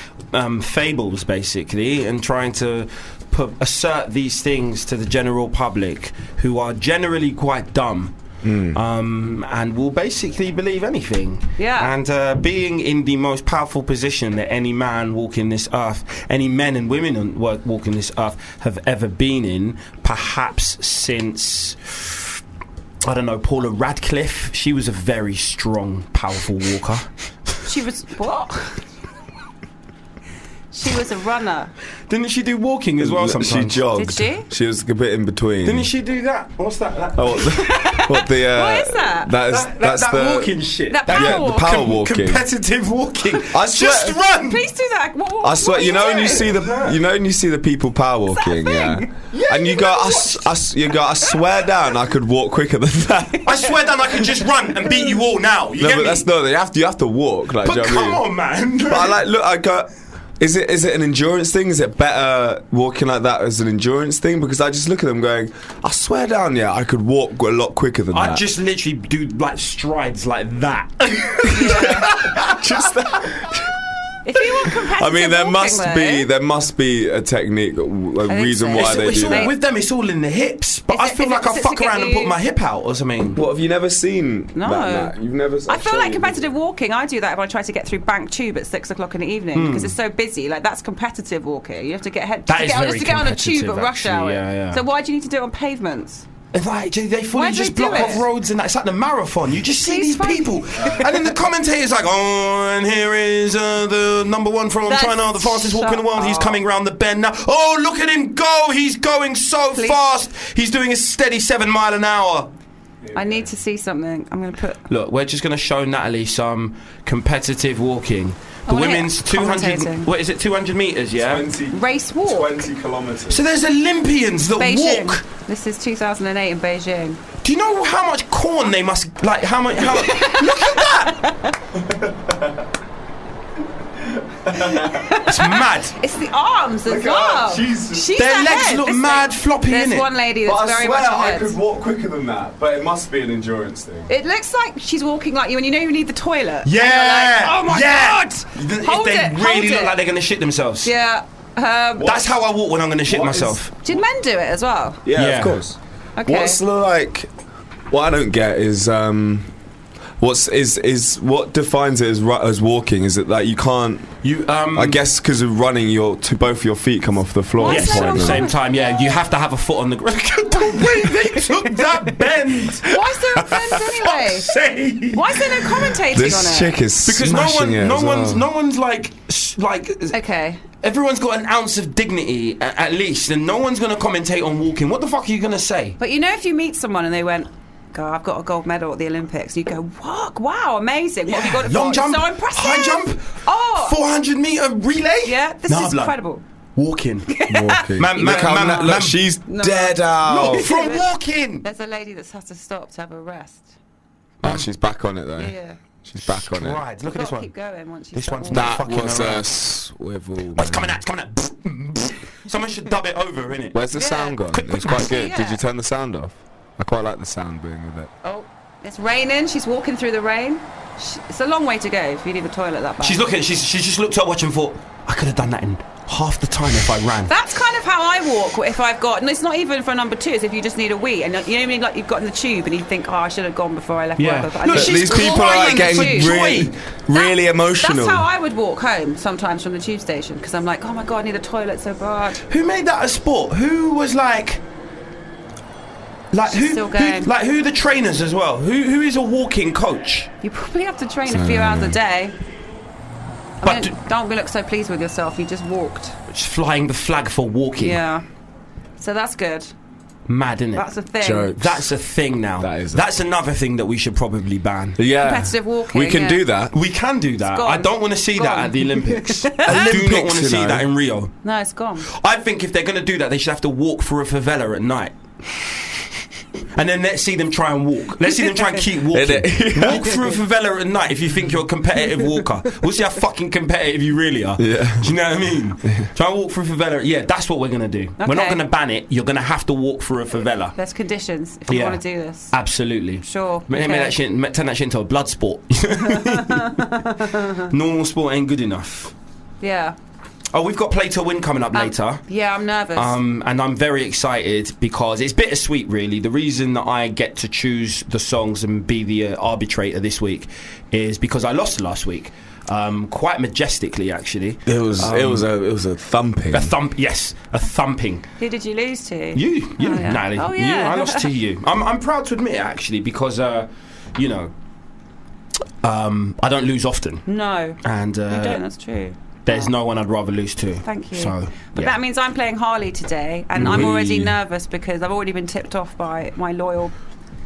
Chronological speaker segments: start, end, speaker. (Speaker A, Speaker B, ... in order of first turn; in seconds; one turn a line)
Speaker A: 0.3-8.1
Speaker B: 8.4-8.8
Speaker A: 8.7-22.1
Speaker C: 11.6-11.9
Speaker A: 23.0-27.1
Speaker C: 27.6-28.8
Speaker C: 30.7-31.7
Speaker A: 32.1-33.8
Speaker B: 33.0-35.9
Speaker C: 34.0-34.5
Speaker A: 35.6-37.6
Speaker B: 37.1-40.5
Speaker C: 37.5-39.3
Speaker A: 39.5-44.6
Speaker C: 40.9-41.7
Speaker B: 41.1-42.4
Speaker B: 43.5-44.2
Speaker C: 43.8-46.5
Speaker B: 45.4-53.5
Speaker A: 46.4-46.9
Speaker C: 48.3-49.1
Speaker A: 49.3-50.4
Speaker A: 53.4-56.2
Speaker B: 55.8-58.2
Speaker A: 57.6-59.2
Speaker B: 58.9-68.4
Speaker A: 68.1-72.9
Speaker C: 71.5-72.1
Speaker B: 71.6-73.7
Speaker C: 74.2-76.3
Speaker B: 74.8-79.5
Speaker C: 78.2-79.5
Speaker A: 78.7-83.4
Speaker C: 80.9-82.3
Speaker B: 83.3-86.5
Speaker C: 84.5-85.1
Speaker C: 85.7-96.2
Speaker A: 89.5-90.0
Speaker A: 92.5-94.8
Speaker A: 96.5-112.5
Speaker C: 97.3-98.3
Speaker C: 99.8-101.0
Speaker B: 100.8-101.1
Speaker C: 104.9-106.6
Speaker C: 109.7-110.0
Speaker B: 113.0-113.5
Speaker C: 113.1-114.8
Speaker A: 114.9-121.5
Speaker C: 118.7-120.1
Speaker B: 121.2-123.4
Speaker C: 121.7-122.5
Speaker A: 123.3-125.2
Speaker C: 124.6-127.2
Speaker A: 127.4-131.2
Speaker C: 129.8-131.6
Speaker B: 131.7-132.7
Speaker B: 134.0-135.1
Speaker C: 134.6-141.6
Speaker A: 135.2-136.0
Speaker B: 136.8-138.1
Speaker A: 138.2-140.1
Speaker B: 140.4-144.1
Speaker C: 144.1-149.9
Speaker A: 146.6-150.9
Speaker C: 150.8-152.3
Speaker A: 152.0-153.8
Speaker B: 153.1-153.6
Speaker C: 153.8-155.0
Speaker B: 155.0-157.3
Speaker A: 155.1-155.6
Speaker C: 156.2-156.6
Speaker B: 157.9-159.5
Speaker B: 160.2-164.1
Speaker A: 164.2-165.0
Speaker B: 164.7-168.5
Speaker C: 167.6-169.1
Speaker A: 167.6-175.9
Speaker C: 170.6-172.0
Speaker C: 172.8-174.5
Speaker C: 175.1-176.8
Speaker B: 176.1-178.5
Speaker A: 177.0-180.2
Speaker C: 180.1-180.6
Speaker A: 180.8-186.0
Speaker C: 186.0-194.0
Speaker A: 191.2-196.2
Speaker C: 195.2-196.4
Speaker A: 196.8-199.2
Speaker C: 197.3-201.1
Speaker B: 197.5-200.7
Speaker A: 200.2-201.6
Speaker C: 201.6-203.7
Speaker A: 204.4-204.7
Speaker B: 204.4-205.5
Speaker C: 205.4-205.8
Speaker B: 206.0-206.8
Speaker A: 206.2-207.5
Speaker C: 207.1-208.8
Speaker A: 208.1-209.5
Speaker B: 208.5-211.0
Speaker A: 210.5-213.8
Speaker B: 213.7-218.1
Speaker C: 213.9-215.6
Speaker A: 214.5-215.1
Speaker C: 218.2-223.2
Speaker A: 223.0-227.3
Speaker C: 227.3-236.4
Speaker A: 234.2-236.7
Speaker B: 234.7-238.2
Speaker C: 237.1-242.4
Speaker A: 242.5-244.6
Speaker A: 246.3-250.3
Speaker C: 246.5-247.3
Speaker C: 250.4-252.3
Speaker B: 251.3-252.0
Speaker C: 253.6-256.2
Speaker A: 253.6-253.9
Speaker A: 256.3-258.0
Speaker C: 257.8-258.2
Speaker C: 259.0-259.7
Speaker A: 260.3-260.9
Speaker C: 260.7-261.5
Speaker B: 261.2-261.8
Speaker A: 261.5-265.0
Speaker B: 262.6-263.0
Speaker B: 265.0-266.7
Speaker C: 265.2-266.4
Speaker A: 266.7-271.3
Speaker C: 267.5-269.9
Speaker B: 269.6-270.9
Speaker C: 271.4-272.1
Speaker A: 272.1-275.1
Speaker A: 276.7-290.7
Speaker B: 279.1-280.2
Speaker B: 284.6-285.1
Speaker C: 288.2-288.6
Speaker C: 290.8-292.5
Speaker A: 291.7-299.1
Speaker C: 293.2-294.2
Speaker C: 296.0-297.7
Speaker C: 299.6-299.9
Speaker A: 300.5-302.2
Speaker C: 301.7-303.1
Speaker A: 302.9-315.5
Speaker B: 314.6-316.7
Speaker A: 316.5-318.2
Speaker C: 318.4-321.3
Speaker A: 319.3-324.5
Speaker A: 325.8-327.3
Speaker C: 327.2-329.7
Speaker A: 327.8-328.6
Speaker A: 329.4-331.9
Speaker C: 330.8-336.9
Speaker A: 333.5-334.4
Speaker B: 333.6-333.9